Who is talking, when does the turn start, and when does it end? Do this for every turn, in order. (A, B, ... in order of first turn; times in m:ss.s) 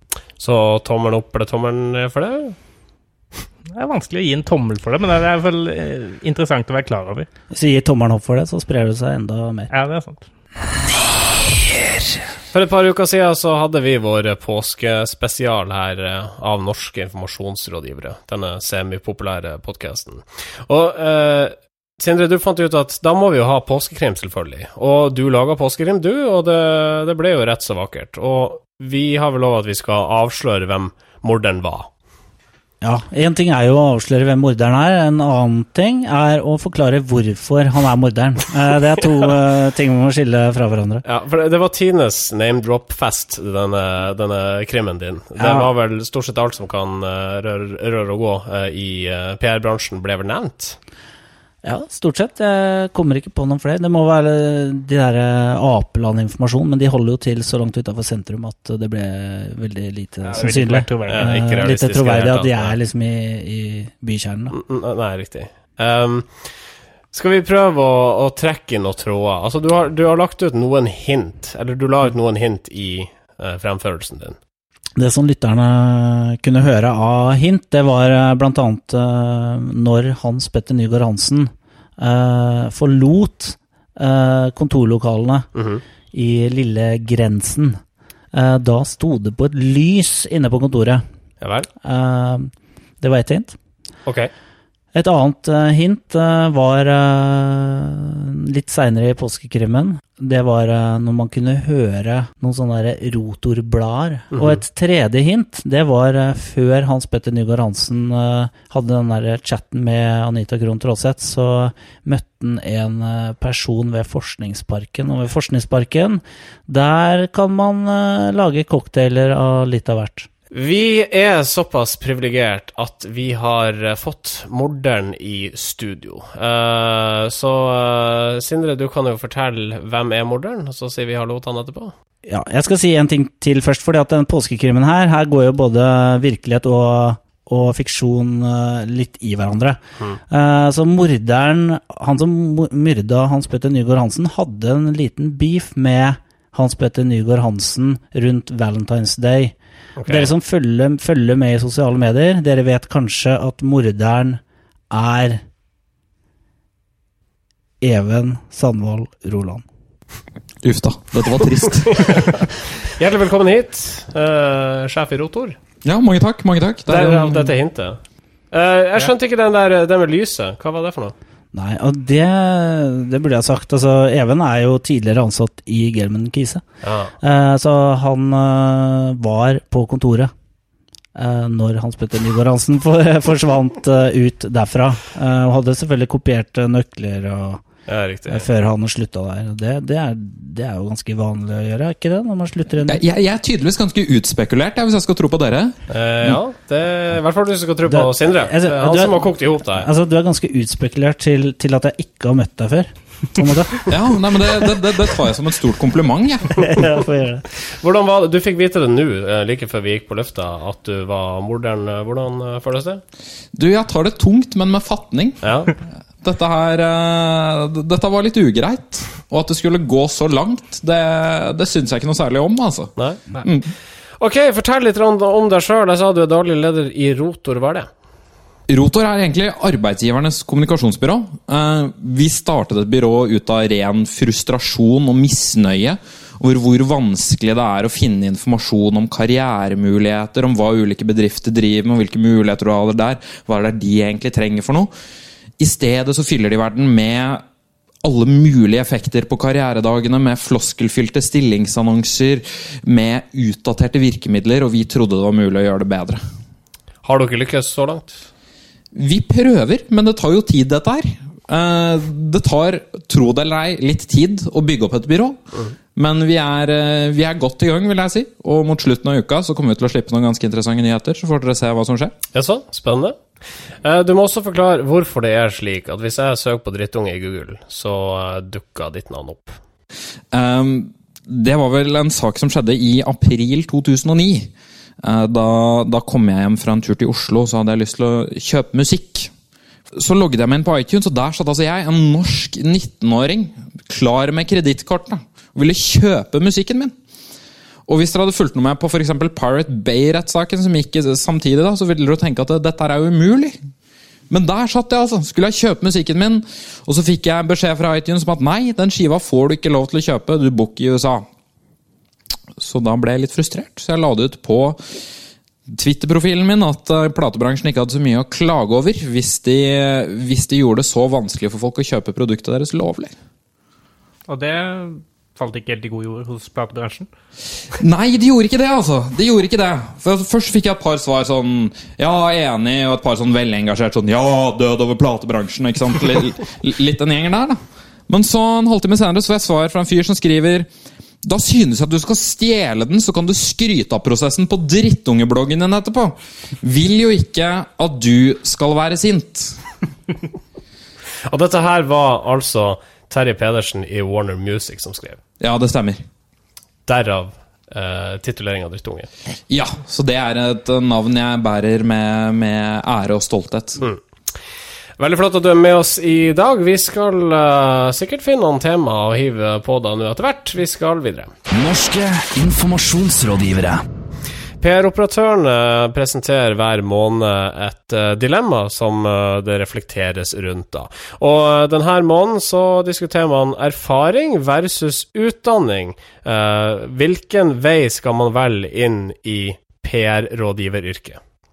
0:00.4-0:02.6 A
0:03.7-0:07.3 B
0:07.5-0:09.7 C
0:09.7-0:10.3 B
0:10.7-0:12.2 D
0:12.5-0:31.9 A
0:32.8-0:41.0 C
0:41.0-0:50.8 A
0:45.4-0:45.7 C
0:51.6-1:04.6 C
1:00.2-1:01.3 B
1:01.1-1:02.8 A
1:04.5-1:06.5 A
1:07.1-1:14.4 A
1:15.0-1:25.5 C
1:25.6-1:25.8 A
1:26.1-1:27.8 C
1:28.3-1:31.0 C
1:31.4-1:31.7 A
1:31.8-1:33.6 C
1:34.1-1:34.3 A
1:34.9-2:00.3 C
1:44.3-1:44.6 A
2:00.5-2:11.9 A
2:12.3-2:35.4 C
2:30.0-2:30.3 A
2:37.8-2:39.6 C
2:40.6-2:42.5 E
2:41.9-2:45.6 A
2:45.8-2:47.5 E
2:46.9-2:48.0 A
2:48.5-2:51.1 A
2:51.5-2:56.6 C
2:56.8-2:57.1 A
2:57.2-3:00.3 C
3:01.2-3:07.6 C
3:07.9-3:08.5 A
3:08.3-3:13.0 C
3:12.9-3:16.4 E
3:15.9-3:19.9 A
3:17.9-3:24.0 C
3:23.9-3:26.8 E
3:26.6-3:27.5 C
3:27.6-3:33.0 A
3:33.5-3:35.4 E
3:35.4-3:35.7 A
3:36.2-3:43.7 E
3:44.2-3:47.9 A
3:48.7-4:04.9 E
4:05.6-4:07.4 E
4:08.0-4:16.2 E
4:17.0-4:18.3 A
4:18.9-4:25.4 E
4:26.0-4:32.2 E
4:32.3-4:33.2 A
4:33.8-4:39.6 A
4:40.3-4:44.5 E
4:45.0-4:49.3 E
4:49.9-4:57.0 E
4:57.9-5:03.6 E
5:04.3-5:11.3 E
5:12.6-5:14.8 E
5:15.7-5:23.1 E
5:24.3-5:27.1 B
5:27.8-5:40.7 E
5:41.2-5:49.6 E
5:51.3-5:55.2 A
5:55.4-5:56.0 E
5:56.9-5:59.1 A
5:59.5-6:03.8 E
6:05.0-6:11.3 A
6:11.5-6:13.8 D
6:14.6-6:31.2 A